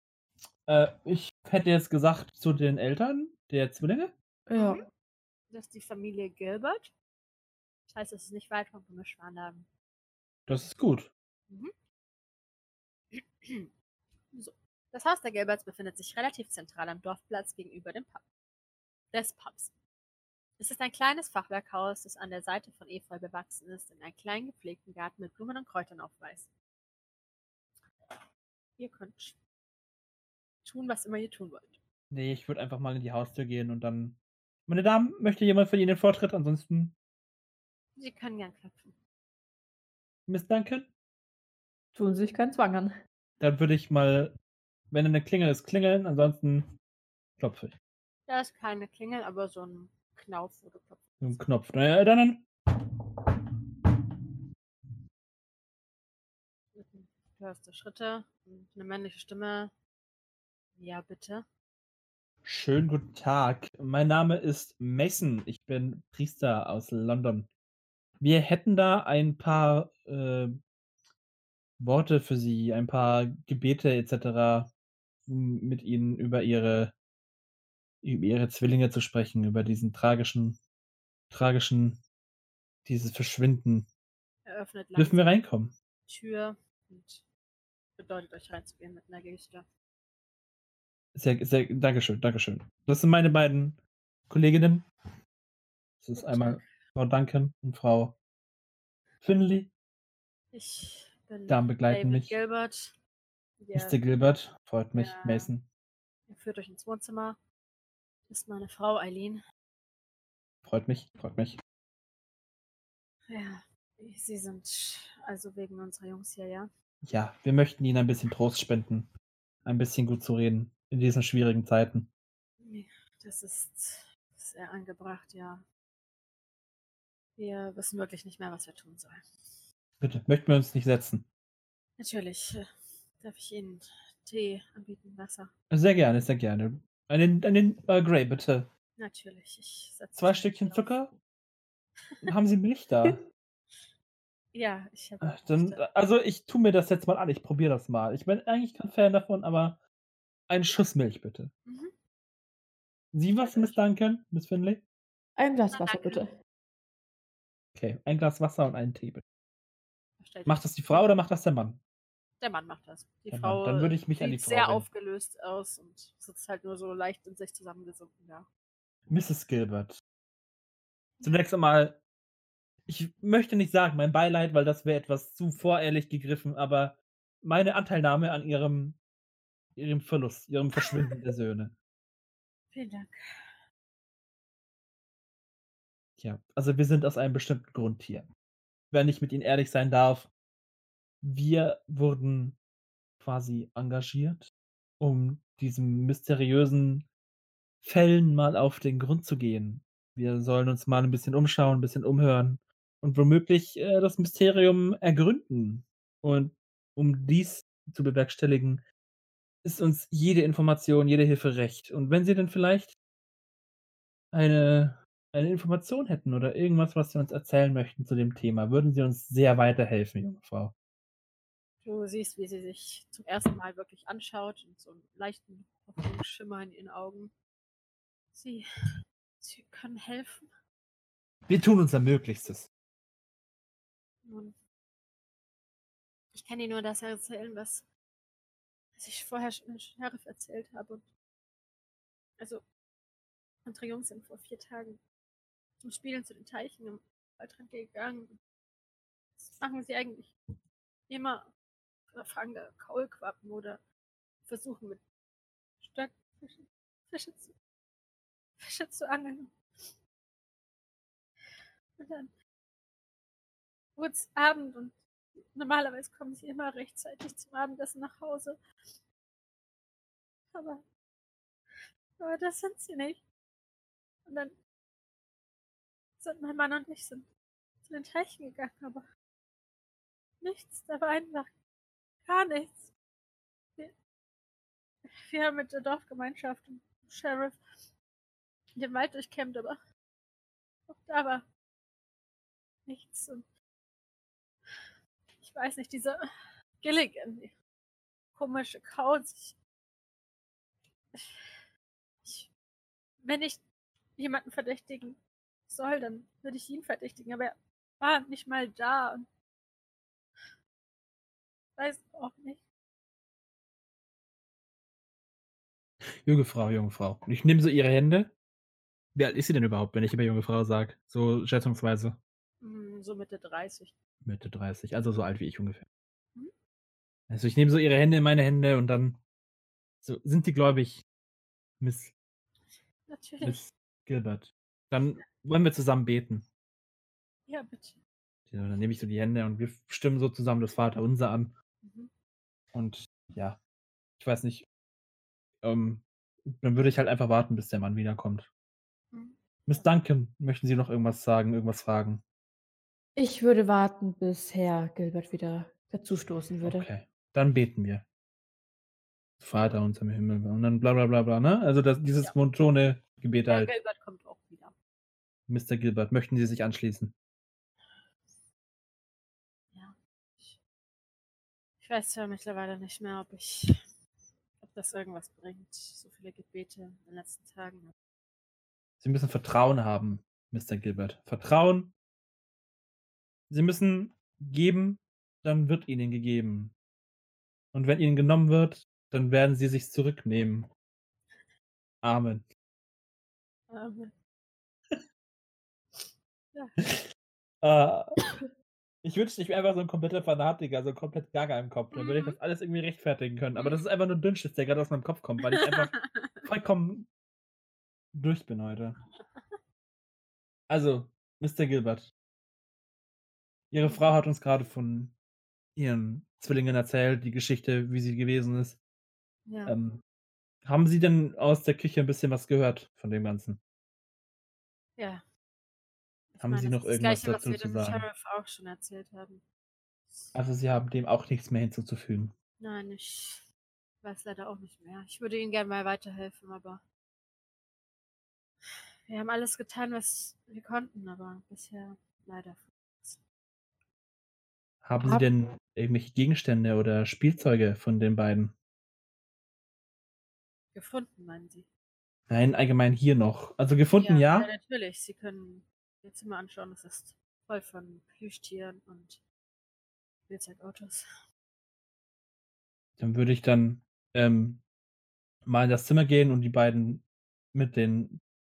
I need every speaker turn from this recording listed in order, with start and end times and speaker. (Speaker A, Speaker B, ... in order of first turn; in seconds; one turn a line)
Speaker A: 0.7-4.1
Speaker B: 4.5-4.8
Speaker C: 4.5-4.8
Speaker C: 5.5-6.9
Speaker C: 7.9-9.7
Speaker A: 10.5-11.1
Speaker C: 13.1-13.7
Speaker C: 14.3-18.2
Speaker C: 19.1-19.7
Speaker C: 20.6-26.5
Speaker C: 28.8-29.4
Speaker C: 30.6-31.8
Speaker A: 32.1-36.9
Speaker C: 38.0-39.0
Speaker A: 40.3-40.9
Speaker B: 41.9-42.9
Speaker A: 43.4-44.3
Speaker A: 44.9-46.7
Speaker A: 47.4-47.7
Speaker C: 48.3-51.0
Speaker A: 51.2-52.5
Speaker C: 56.7-59.7
Speaker C: 60.8-61.4
Speaker A: 62.4-67.5
Speaker A: 68.2-70.5
Speaker A: 71.8-74.7
Speaker A: 75.2-76.9
Speaker A: 78.0-80.6
Speaker A: 81.3-82.0
Speaker A: 82.8-83.9
Speaker C: 84.4-85.3
Speaker A: 85.0-85.7
Speaker C: 86.1-87.2
Speaker C: 88.0-89.7
Speaker A: 91.1-94.8
Speaker A: 96.0-98.2
Speaker C: 96.1-96.8
Speaker A: 99.2-99.7
Speaker C: 100.5-103.0
Speaker A: 101.5-102.3
Speaker C: 103.6-104.0
Speaker A: 103.7-105.7
Speaker C: 104.9-105.5
Speaker C: 106.3-107.4
Speaker C: 108.3-109.4
Speaker A: 110.6-111.6
Speaker C: 113.3-116.7
Speaker A: 117.0-119.1
Speaker A: 119.6-122.1
Speaker C: 122.6-125.6
Speaker C: 127.3-129.2
Speaker A: 130.0-131.2
Speaker C: 132.0-132.6
Speaker C: 133.2-135.5
Speaker A: 135.7-138.7
Speaker C: 138.9-140.9
Speaker A: 140.1-141.1
Speaker A: 142.2-143.2
Speaker C: 144.5-145.8
Speaker A: 145.2-149.8
Speaker A: 150.5-151.5
Speaker C: 151.7-151.9
Speaker A: 153.1-154.8
Speaker C: 153.4-153.8
Speaker B: 155.4-156.3
Speaker C: 155.7-156.2
Speaker A: 157.7-159.2
Speaker C: 160.2-161.1
Speaker A: 160.4-161.8
Speaker C: 162.4-168.5
Speaker A: 163.3-164.8
Speaker A: 169.1-170.0
Speaker A: 171.2-172.0
Speaker A: 172.9-179.0
Speaker A: 179.8-181.7
Speaker C: 182.7-183.2
Speaker A: 186.2-188.3
Speaker A: 188.9-190.3
Speaker A: 191.2-192.6
Speaker A: 193.2-194.5
Speaker A: 195.0-197.1
Speaker A: 197.8-208.8
Speaker A: 209.6-212.9
Speaker A: 214.3-220.7
Speaker C: 221.8-227.3
Speaker C: 228.3-228.7
Speaker C: 229.4-230.5
Speaker A: 231.5-232.7
Speaker C: 234.2-234.6
Speaker C: 236.3-237.8
Speaker C: 239.0-241.1
Speaker C: 242.4-242.6
Speaker C: 243.6-245.0
Speaker C: 245.8-248.4
Speaker C: 249.4-250.3
Speaker C: 251.1-251.5
Speaker C: 252.1-253.8
Speaker C: 254.4-255.0
Speaker C: 255.8-257.5
Speaker C: 258.6-259.6
Speaker C: 262.0-262.3
Speaker C: 263.9-265.0
Speaker C: 265.5-268.6
Speaker C: 270.5-270.8
Speaker C: 272.2-273.2
Speaker C: 274.2-274.5
Speaker C: 276.2-277.3
Speaker C: 277.8-279.0
Speaker C: 280.4-281.5
Speaker C: 282.2-282.9
Speaker C: 285.1-287.6
Speaker C: 288.8-289.8
Speaker C: 290.9-291.4
Speaker C: 292.9-293.4
Speaker C: 295.3-296.2
Speaker C: 296.8-297.5
Speaker C: 298.3-299.6
Speaker C: 301.1-301.5
Speaker C: 302.2-302.5
Speaker C: 303.2-303.6
Speaker C: 304.1-309.3
Speaker C: 311.8-312.6
Speaker A: 316.2-318.3
Speaker A: 319.1-322.2
Speaker C: 322.6-323.9
Speaker A: 324.2-325.9
Speaker A: 327.3-329.2
Speaker A: 330.0-331.0
Speaker A: 331.8-332.1
Speaker C: 333.1-333.6
Speaker A: 333.4-336.4
Speaker C: 337.5-338.0
Speaker A: 338.5-341.5
Speaker C: 341.8-342.1
Speaker A: 342.7-343.6
Speaker A: 344.2-344.6
Speaker A: 345.6-348.5
Speaker C: 349.1-349.9
Speaker A: 349.6-352.2
Speaker B: 353.1-356.9
Speaker A: 356.6-358.0
Speaker A: 359.4-363.7
Speaker C: 363.5-364.7
Speaker A: 365.5-367.1
Speaker C: 367.9-368.3
Speaker C: 369.7-370.6
Speaker C: 371.8-373.8
Speaker C: 374.6-377.9
Speaker A: 379.0-381.9
Speaker A: 383.5-386.7
Speaker A: 387.7-390.7
Speaker A: 392.0-392.4
Speaker C: 393.7-394.1
Speaker C: 395.9-396.8
Speaker A: 397.6-398.1
Speaker A: 399.0-407.1
Speaker C: 401.9-402.4
Speaker C: 403.5-403.8
Speaker C: 405.5-406.4
Speaker A: 408.1-409.0
Speaker A: 410.7-412.1
Speaker A: 413.7-415.1
Speaker C: 413.8-414.1
Speaker A: 415.8-418.8
Speaker C: 419.4-419.7
Speaker A: 419.7-420.0
Speaker A: 420.6-423.6
Speaker C: 425.0-425.2
Speaker C: 426.3-429.4
Speaker A: 426.4-428.1
Speaker C: 430.1-430.4
Speaker A: 430.3-432.3
Speaker C: 432.6-433.4
Speaker C: 434.0-436.8
Speaker C: 439.1-443.2
Speaker A: 444.8-448.5
Speaker B: 445.0-445.3
Speaker C: 450.7-451.7
Speaker A: 452.3-454.5
Speaker C: 453.9-459.2
Speaker C: 460.3-461.0
Speaker A: 463.0-464.6
Speaker A: 465.4-468.2